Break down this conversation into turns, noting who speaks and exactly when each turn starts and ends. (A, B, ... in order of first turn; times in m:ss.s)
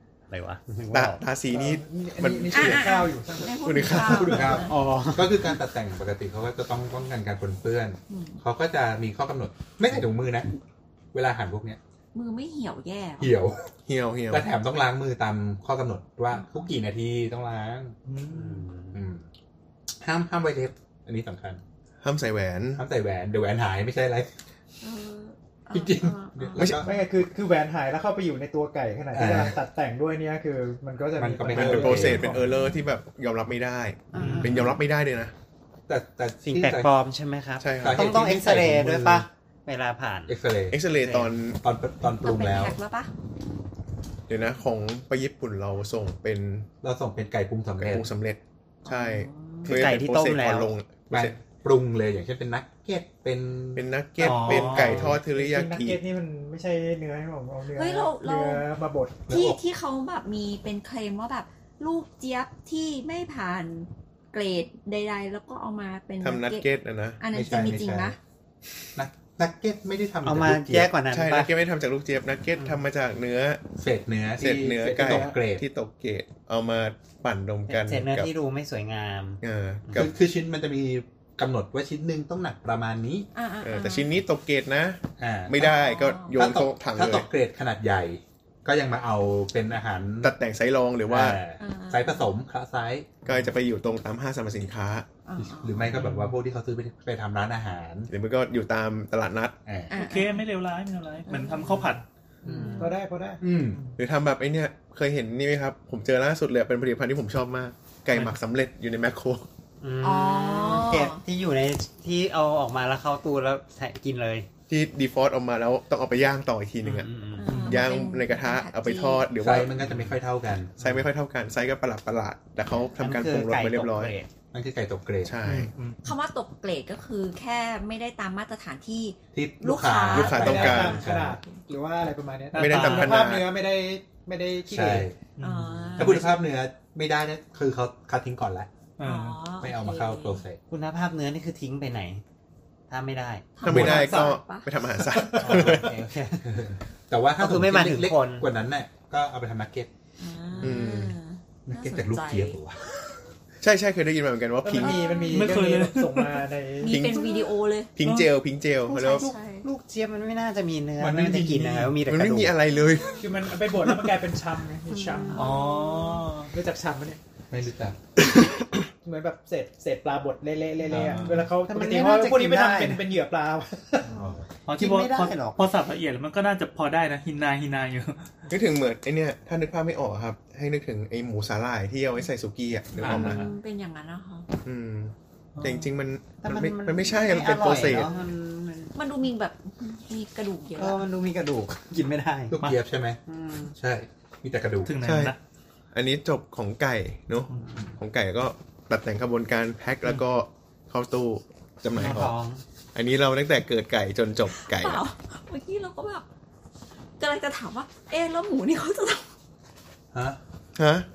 0:00.3-0:01.2 A
0:00.9-0:02.9 B
0:01.5-0:04.7 C
0:02.5-0:04.7 D
0:03.6-0:04.4 B
0:04.1-0:10.5 E
0:04.7-0:05.6 A
0:08.1-0:08.4 D
0:11.1-0:11.8 E
0:12.1-0:13.3 D
0:13.2-0:13.7 E
0:13.9-0:14.5 B
0:14.3-0:18.0 E
0:16.3-0:16.7 D
0:18.1-0:18.7 F
0:18.3-0:19.0 A
0:18.9-0:19.3 E
0:20.0-0:21.6 E
0:22.0-0:22.8 B
0:22.8-0:24.3 E
0:24.8-0:26.7 D
0:25.7-0:26.9 E
0:26.6-0:26.9 B
0:26.8-0:32.2 C
0:29.1-0:29.6 E
0:31.2-0:32.4 E
0:31.5-0:35.3 B
0:32.1-0:32.8 D
0:34.1-0:34.8 D
0:34.2-0:34.6 F
0:34.2-0:34.5 A
0:35.9-0:36.9 E
0:36.4-0:40.4 A
0:37.6-0:38.2 B
0:37.8-0:39.3 E
0:40.3-0:40.8 E
0:40.7-0:41.6 B
0:41.0-0:41.3 A
0:41.6-0:42.8 E
0:42.2-0:43.1 D
0:44.3-0:46.7 B
0:46.8-0:48.1 E
0:47.8-0:51.4 B
0:48.8-0:49.8 D
0:49.7-0:50.7 A
0:51.1-0:55.2 E
0:53.8-0:56.0 B
0:54.2-0:55.1 F
0:55.1-0:59.3 C
0:57.7-0:58.6 D
0:59.3-0:59.6 E
0:59.3-1:06.7 D
1:06.2-1:07.2 B
1:07.2-1:08.2 D
1:07.3-1:08.2 E
1:09.0-1:10.9 E
1:10.2-1:11.5 A
1:11.1-1:13.7 B
1:13.8-1:15.7 E
1:14.4-1:18.3 B
1:15.0-1:15.3 C
1:17.7-1:20.1 A
1:19.4-1:20.1 B
1:19.9-1:23.3 E
1:23.3-1:24.1 D
1:23.6-1:27.3 B
1:25.2-1:25.7 E
1:25.6-1:26.4 D
1:26.3-1:30.3 E
1:30.2-1:31.4 B
1:31.1-1:33.4 E
1:31.6-1:32.4 D
1:33.2-1:35.1 B
1:35.3-1:36.1 D
1:35.4-1:38.1 E
1:35.9-1:36.4 F
1:38.1-1:39.6 B
1:39.7-1:39.9 E
1:39.9-1:40.4 D
1:39.9-1:42.0 F
1:41.3-1:42.0 D
1:42.4-1:42.8 A
1:42.5-1:42.8 E
1:42.5-1:42.9 D
1:42.8-1:43.4 C
1:43.4-1:43.8 E
1:44.0-1:49.5 B
1:49.8-1:54.5 A
1:50.0-1:51.2 D
1:54.7-1:57.1 B
1:56.8-1:57.5 A
1:57.4-1:59.3 D
1:57.5-1:57.9 F
1:57.6-1:59.8 B
1:59.4-2:00.8 E
1:59.8-2:00.2 A
2:00.8-2:04.2 B
2:03.0-2:04.3 A
2:04.5-2:05.4 E
2:05.2-2:05.7 B
2:05.4-2:06.1 F
2:06.0-2:11.6 D
2:09.3-2:11.4 E
2:10.1-2:11.0 B
2:10.3-2:15.1 C
2:12.5-2:13.2 F
2:12.6-2:13.5 B
2:14.7-2:15.2 E
2:15.4-2:16.2 F
2:15.4-2:16.4 D
2:16.0-2:18.7 E
2:19.0-2:19.4 F
2:19.0-2:20.4 D
2:19.6-2:20.6 E
2:20.7-2:22.2 A
2:22.9-2:23.5 A
2:23.6-2:24.7 D
2:23.6-2:25.9 B
2:23.7-2:24.0 E
2:23.9-2:24.4 C
2:25.4-2:29.9 E
2:25.4-2:26.7 A
2:27.4-2:28.5 A
2:30.2-2:32.6 D
2:30.6-2:31.2 B
2:31.7-2:32.9 E
2:33.6-2:35.1 B
2:34.6-2:37.1 C
2:34.8-2:35.6 D
2:35.3-2:36.4 F
2:36.8-2:37.9 D
2:36.8-2:39.3 B
2:38.0-2:38.3 F
2:38.9-2:39.7 D
2:38.9-2:42.6 A
2:41.0-2:42.0 E
2:42.1-2:43.3 B
2:42.7-2:43.3 D
2:43.2-2:45.5 C
2:44.9-2:46.3 D
2:45.4-2:46.5 F
2:46.5-2:47.2 C
2:47.5-2:48.0 E
2:49.0-2:54.1 C
2:50.9-2:51.5 E
2:50.9-2:53.1 A
2:54.1-2:54.5 E
2:54.7-2:58.3 F
2:54.7-2:55.6 A
2:58.5-3:03.4 B
3:03.0-3:03.5 E
3:03.0-3:04.5 D
3:04.6-3:08.1 B
3:05.6-3:05.9 F
3:06.4-3:08.3 A
3:07.6-3:11.0 D
3:10.8-3:12.6 A
3:12.5-3:13.2 E
3:13.3-3:13.8 A
3:13.8-3:15.0 E
3:14.8-3:15.4 F
3:15.0-3:15.4 B
3:15.9-3:22.4 B
3:17.6-3:17.9 A
3:22.0-3:22.6 A
3:23.0-3:25.0 B
3:24.6-3:26.2 D
3:27.2-3:29.2 D
3:30.1-3:30.4 E
3:30.8-3:31.1 B